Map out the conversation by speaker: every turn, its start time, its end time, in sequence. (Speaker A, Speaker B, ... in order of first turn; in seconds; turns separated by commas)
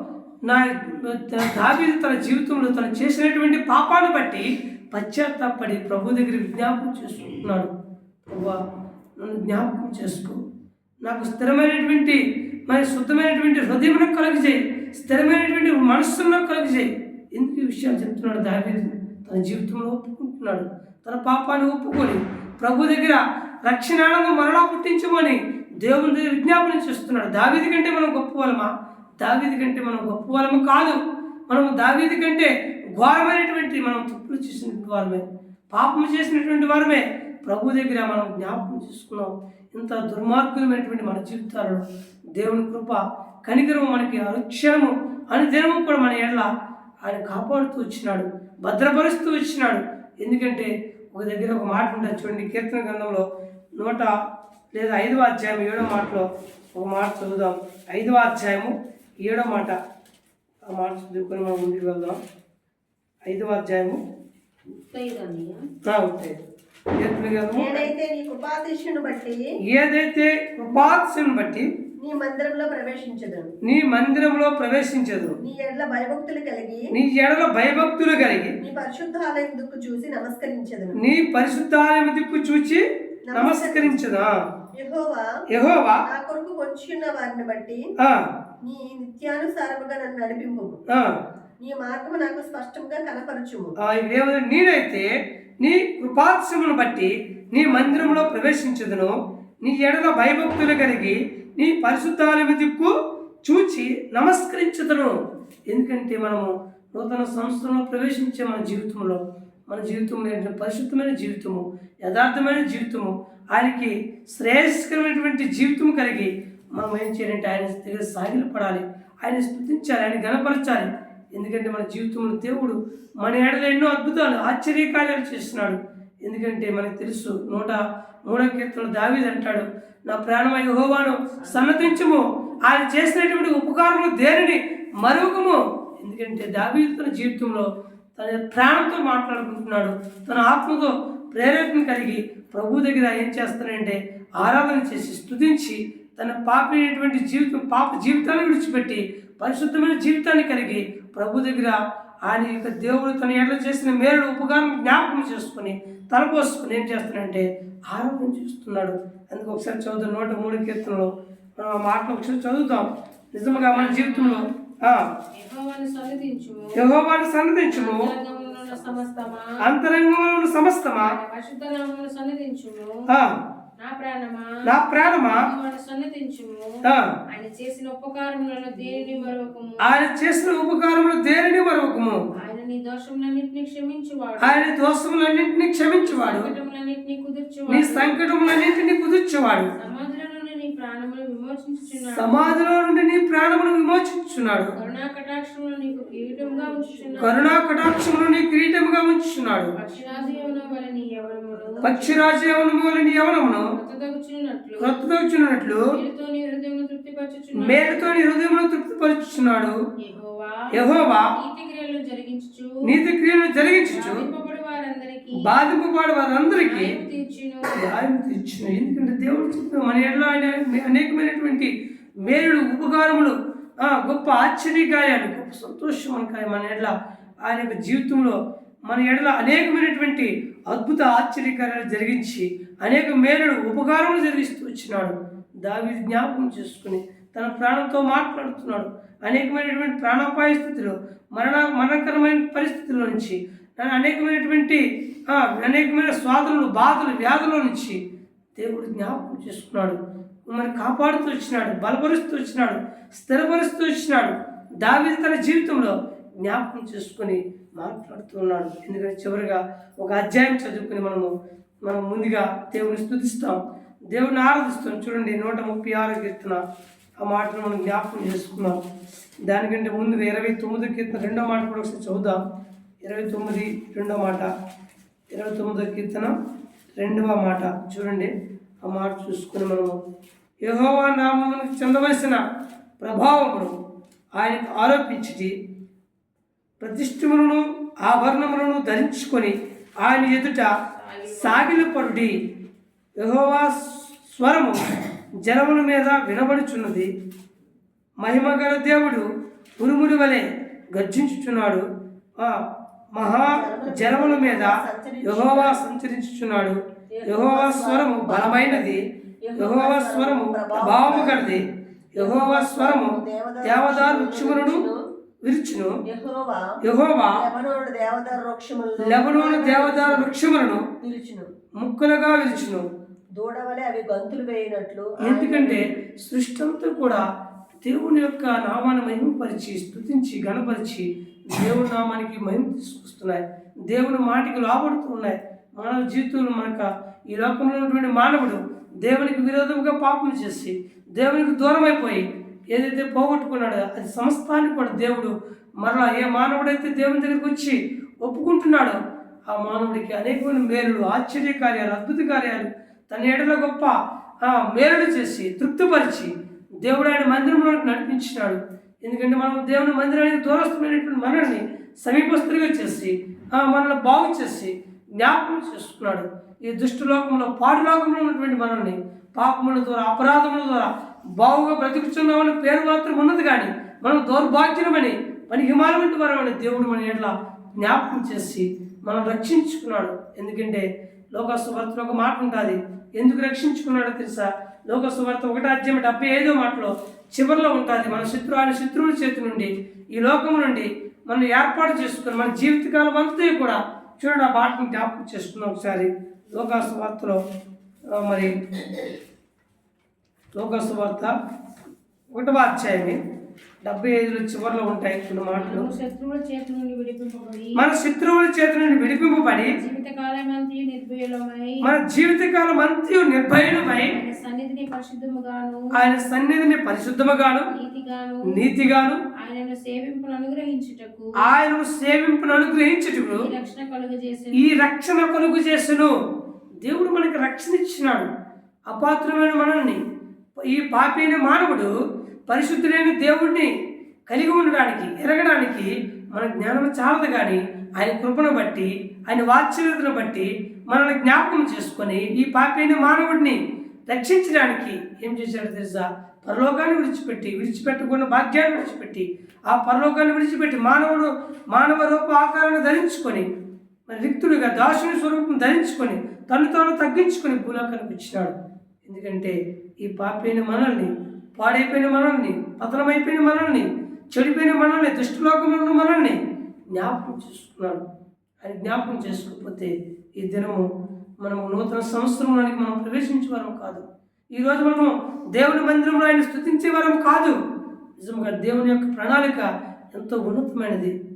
Speaker A: 0.5-7.7, Speaker A: 8.3-8.6, Speaker A: 9.2-10.4, Speaker A: 11.0-31.0, Speaker A: 31.5-41.8, Speaker A: 42.3-46.5, Speaker A: 47.0-53.2, Speaker A: 53.8-54.1, Speaker A: 54.7-59.8, Speaker A: 60.7-62.2, Speaker A: 63.2-64.0, Speaker B: 64.7-65.6, Speaker A: 65.8-66.4, Speaker A: 67.0-67.9, Speaker C: 67.5-69.4, Speaker A: 69.7-71.7, Speaker C: 72.0-73.5, Speaker A: 73.6-75.4, Speaker C: 75.4-76.9, Speaker A: 76.9-78.5, Speaker C: 78.6-81.0, Speaker A: 80.9-84.3, Speaker C: 83.3-84.0, Speaker C: 84.7-85.3, Speaker A: 85.5-86.0, Speaker C: 85.8-87.9, Speaker A: 88.0-88.3, Speaker C: 88.6-90.8, Speaker A: 90.9-91.2, Speaker C: 91.6-93.7, Speaker A: 93.8-95.1, Speaker A: 95.6-102.9, Speaker C: 97.9-98.2, Speaker A: 103.4-105.2, Speaker A: 105.7-165.1, Speaker B: 163.5-164.4, Speaker B: 165.3-166.8, Speaker A: 166.7-168.1, Speaker B: 167.7-169.6, Speaker A: 169.6-171.2, Speaker B: 170.9-173.1, Speaker A: 173.1-173.4, Speaker B: 173.8-179.8, Speaker A: 174.6-175.5, Speaker A: 176.8-177.1, Speaker A: 179.8-182.2, Speaker B: 182.4-184.6, Speaker A: 184.4-186.5, Speaker B: 185.8-188.2, Speaker A: 187.7-189.7, Speaker B: 189.8-192.6, Speaker A: 192.1-194.7, Speaker B: 194.8-197.7, Speaker A: 197.2-199.7, Speaker B: 199.8-202.4, Speaker A: 201.8-203.7, Speaker B: 203.7-205.0, Speaker A: 204.8-205.9, Speaker B: 205.8-208.1, Speaker A: 207.5-209.8, Speaker B: 210.0-210.7, Speaker A: 210.7-211.3, Speaker B: 211.3-212.8, Speaker A: 212.8-214.2, Speaker B: 213.9-215.5, Speaker A: 215.3-216.9, Speaker B: 216.4-217.8, Speaker A: 217.7-248.0, Speaker A: 248.6-261.3, Speaker A: 261.8-266.6, Speaker A: 267.2-268.8, Speaker A: 269.5-272.4, Speaker A: 273.0-274.5, Speaker A: 275.3-276.3, Speaker A: 277.0-278.3, Speaker A: 278.8-280.0, Speaker A: 280.6-282.4, Speaker A: 283.0-283.7, Speaker A: 284.4-285.5, Speaker A: 286.8-290.7, Speaker B: 290.9-291.9, Speaker A: 291.3-292.4, Speaker A: 293.2-297.1, Speaker A: 298.2-301.9, Speaker A: 302.4-309.0, Speaker C: 303.5-305.8, Speaker C: 307.1-311.6, Speaker A: 309.6-314.8, Speaker C: 312.2-315.0, Speaker A: 315.4-316.0, Speaker C: 316.1-316.8, Speaker A: 316.8-317.4, Speaker C: 317.3-320.3, Speaker A: 319.0-320.9, Speaker C: 321.0-321.5, Speaker A: 321.8-322.9, Speaker C: 323.3-325.8, Speaker A: 325.2-327.2, Speaker A: 327.8-397.4, Speaker A: 398.1-399.0, Speaker A: 400.5-401.3, Speaker A: 402.3-403.2, Speaker A: 403.8-405.9, Speaker B: 405.5-407.8, Speaker A: 407.8-409.8, Speaker B: 409.7-411.9, Speaker A: 411.8-414.1, Speaker B: 414.0-415.9, Speaker A: 415.9-417.7, Speaker B: 417.7-418.6, Speaker A: 418.4-419.2, Speaker B: 419.4-421.5, Speaker A: 421.4-423.5, Speaker B: 423.3-424.8, Speaker A: 424.5-426.1, Speaker A: 426.8-428.3, Speaker A: 428.9-430.0, Speaker A: 430.6-431.9, Speaker A: 432.5-433.7, Speaker A: 434.3-453.5, Speaker A: 454.1-466.4, Speaker A: 466.9-468.0, Speaker A: 468.6-470.9, Speaker A: 471.4-474.0, Speaker A: 474.5-477.6, Speaker A: 478.2-481.1